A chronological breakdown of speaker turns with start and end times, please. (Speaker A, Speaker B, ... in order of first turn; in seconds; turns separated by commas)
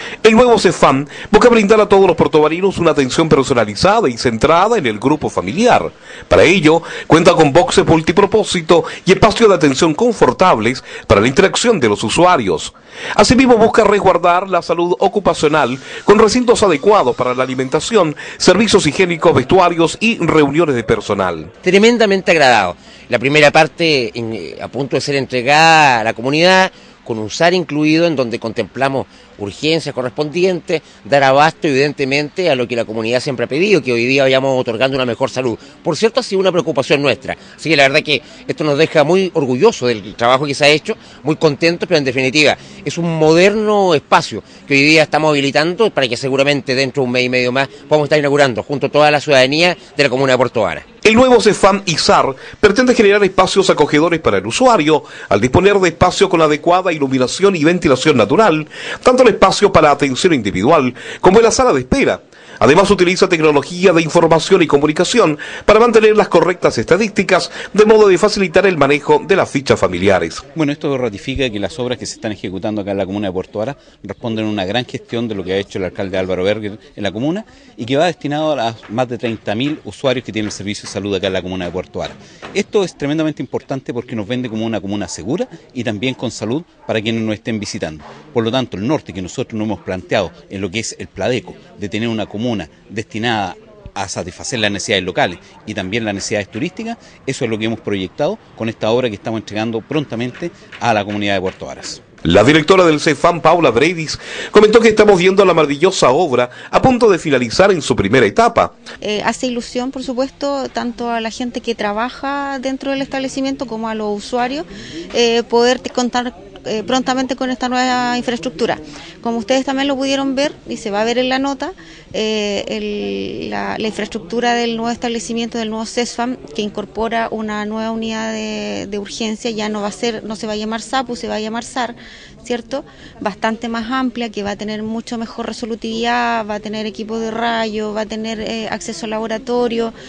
Speaker A: 0.2-21.5, Speaker B: 21.6-50.8, Speaker A: 51.0-70.5, Speaker C: 70.5-102.0, Speaker A: 102.2-108.7, Speaker D: 109.0-139.9